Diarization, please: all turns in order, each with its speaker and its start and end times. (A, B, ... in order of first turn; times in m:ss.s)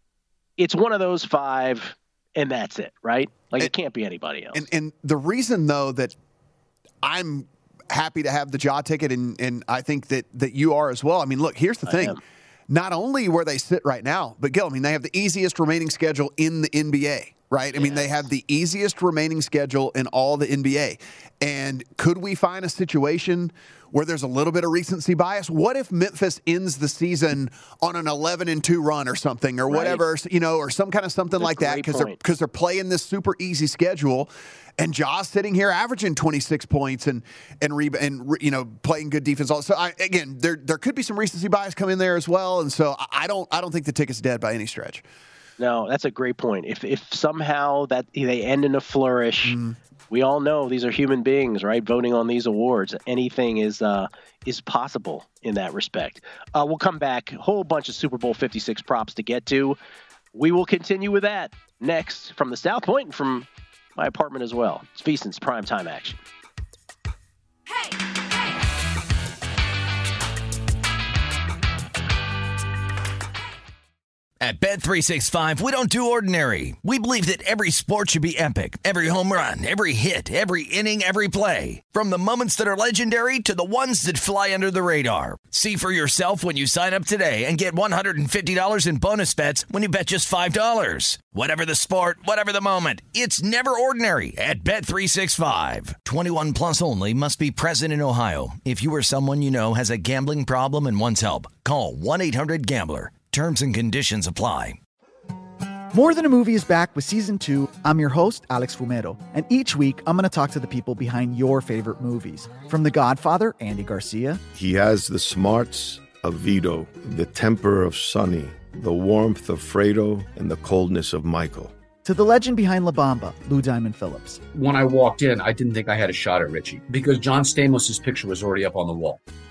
0:00.6-0:04.6 A
0:04.5-0:06.1 B
0:07.0-0:45.0 B
0:11.8-0:12.2 A
0:17.7-0:18.1 A
0:29.7-0:30.0 A
0:31.4-0:32.2 A
0:45.6-0:49.6 A
0:49.4-0:49.8 B
0:50.1-0:59.8 A
1:00.3-1:06.2 A
1:14.4-1:44.8 C
1:45.9-1:54.4 D
1:54.5-2:01.7 E
2:02.0-2:04.4 D
2:04.5-2:09.2 F